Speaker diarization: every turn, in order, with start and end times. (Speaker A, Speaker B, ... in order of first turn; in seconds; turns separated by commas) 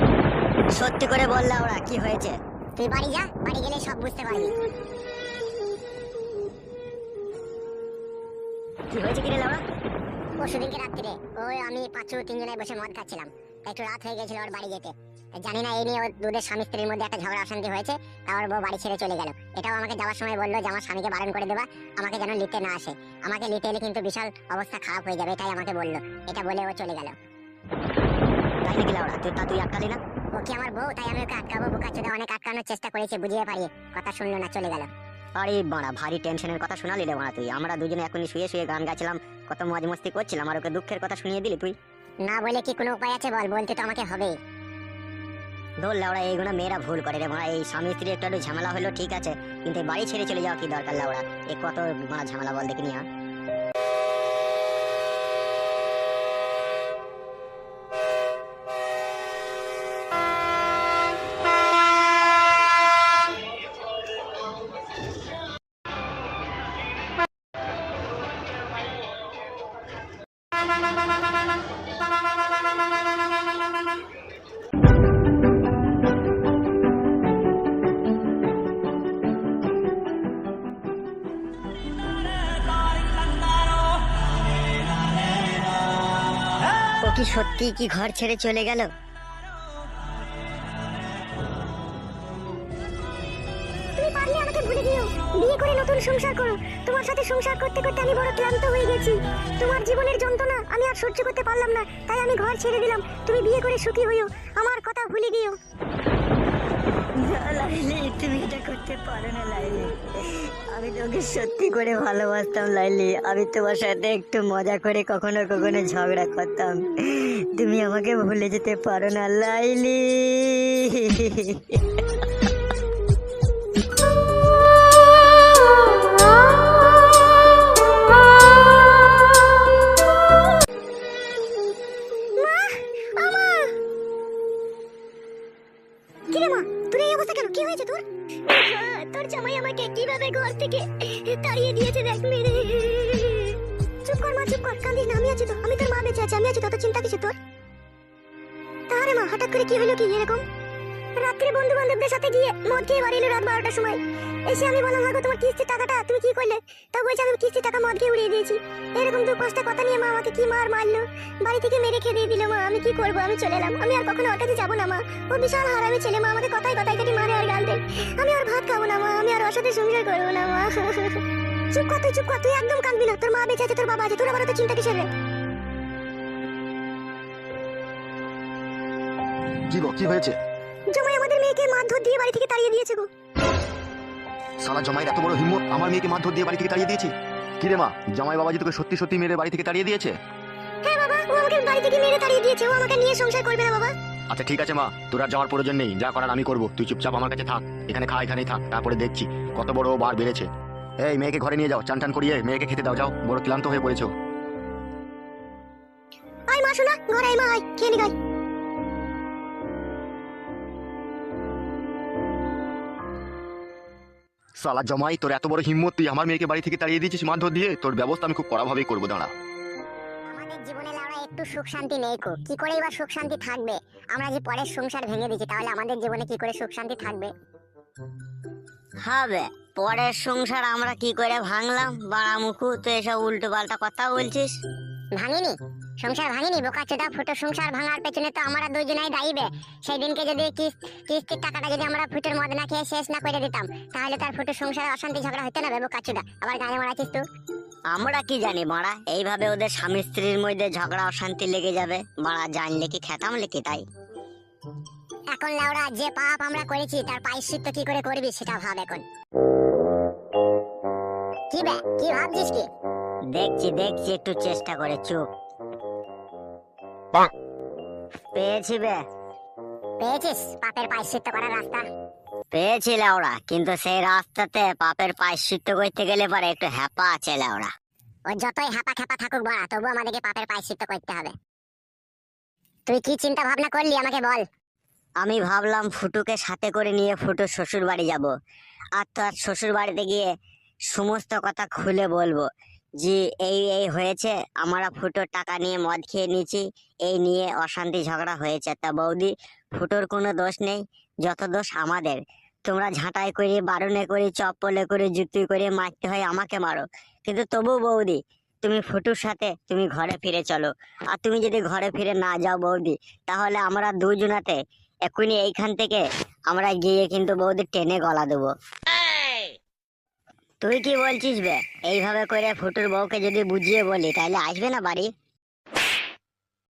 Speaker A: 0.7-2.4, Speaker B: 2.8-4.5, Speaker A: 8.9-9.6, Speaker B: 10.4-27.1, Speaker A: 28.6-30.0, Speaker B: 30.3-34.9, Speaker A: 35.4-41.7, Speaker B: 42.2-44.3, Speaker A: 45.8-53.0, Speaker A: 87.0-88.9, Speaker C: 93.9-105.6, Speaker A: 107.1-122.0, Speaker C: 132.4-133.7, Speaker C: 136.3-147.3, Speaker C: 148.9-150.4, Speaker C: 151.2-175.1, Speaker D: 179.7-180.4, Speaker C: 180.9-183.1, Speaker D: 184.6-190.2, Speaker C: 190.8-193.9, Speaker D: 194.3-200.5, Speaker D: 201.0-204.1, Speaker C: 206.5-208.1, Speaker D: 214.6-219.3, Speaker B: 220.3-227.3, Speaker A: 229.0-234.6, Speaker B: 235.2-247.2, Speaker A: 247.9-253.8, Speaker B: 255.3-259.0, Speaker B: 261.5-262.7, Speaker A: 263.3-265.2, Speaker A: 268.3-269.0, Speaker B: 270.0-271.8, Speaker A: 272.5-277.7, Speaker B: 278.3-281.4, Speaker B: 282.9-284.4, Speaker A: 285.2-288.3, Speaker A: 288.9-290.3, Speaker A: 290.9-292.5, Speaker A: 293.0-318.5, Speaker A: 320.6-325.1